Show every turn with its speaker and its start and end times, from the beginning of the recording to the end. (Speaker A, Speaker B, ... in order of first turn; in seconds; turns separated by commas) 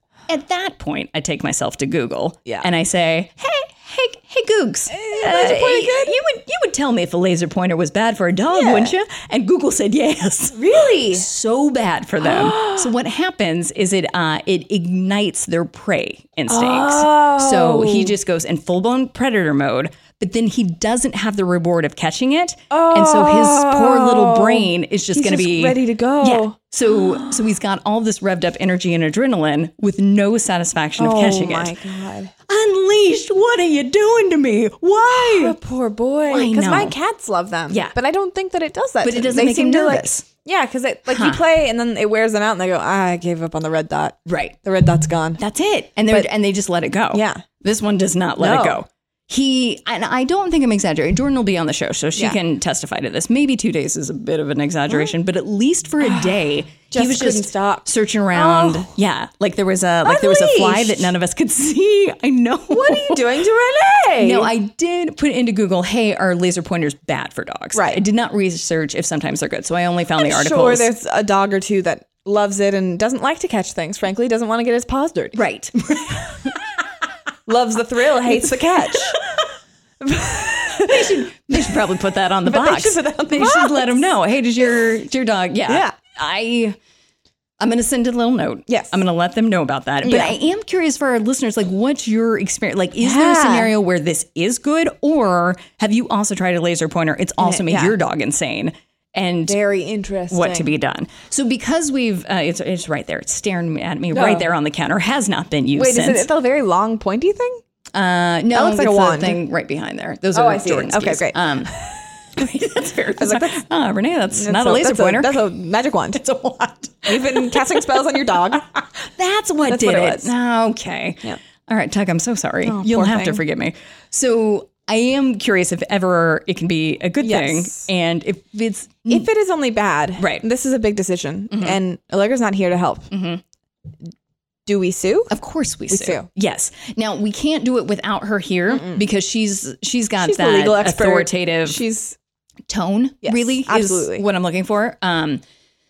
Speaker A: 0.3-31.8, Speaker B: 4.9-6.2, Speaker B: 8.5-8.9, Speaker B: 10.5-11.3, Speaker B: 12.2-12.9, Speaker B: 16.5-18.2, Speaker B: 22.7-27.5, Speaker B: 31.0-32.3, Speaker A: 32.5-35.6, Speaker B: 35.1-45.4, Speaker A: 36.3-37.0, Speaker A: 37.7-38.0, Speaker A: 39.0-40.2, Speaker A: 41.1-41.5, Speaker A: 44.3-44.6, Speaker A: 45.4-63.2, Speaker B: 47.1-47.5, Speaker B: 48.4-48.8, Speaker B: 56.0-58.9, Speaker B: 60.0-61.1, Speaker B: 62.7-64.5, Speaker A: 64.2-70.9, Speaker B: 67.7-68.0, Speaker B: 70.2-75.4, Speaker A: 75.3-76.3, Speaker B: 77.5-79.2, Speaker B: 80.0-81.8, Speaker A: 80.8-86.8, Speaker B: 82.5-84.1, Speaker B: 85.7-86.0, Speaker A: 87.6-99.6, Speaker B: 88.7-89.0, Speaker B: 90.0-90.4, Speaker B: 93.0-93.7, Speaker B: 97.4-98.0, Speaker B: 99.5-100.7, Speaker A: 100.3-106.3, Speaker B: 104.1-104.5, Speaker B: 105.7-107.6, Speaker A: 107.9-115.5, Speaker B: 108.5-109.4, Speaker B: 110.3-112.0, Speaker B: 113.2-113.7, Speaker B: 114.3-116.2, Speaker A: 116.1-117.6, Speaker B: 117.1-118.7, Speaker A: 119.0-129.3, Speaker B: 119.7-120.3, Speaker B: 122.6-123.4, Speaker B: 127.2-127.9, Speaker B: 129.1-133.1, Speaker A: 130.2-130.4, Speaker A: 131.5-131.8, Speaker A: 133.1-133.4, Speaker B: 134.7-135.3, Speaker A: 135.3-141.8, Speaker B: 135.9-136.3, Speaker B: 138.7-139.1, Speaker B: 140.2-142.2, Speaker A: 142.7-145.4, Speaker B: 143.2-144.2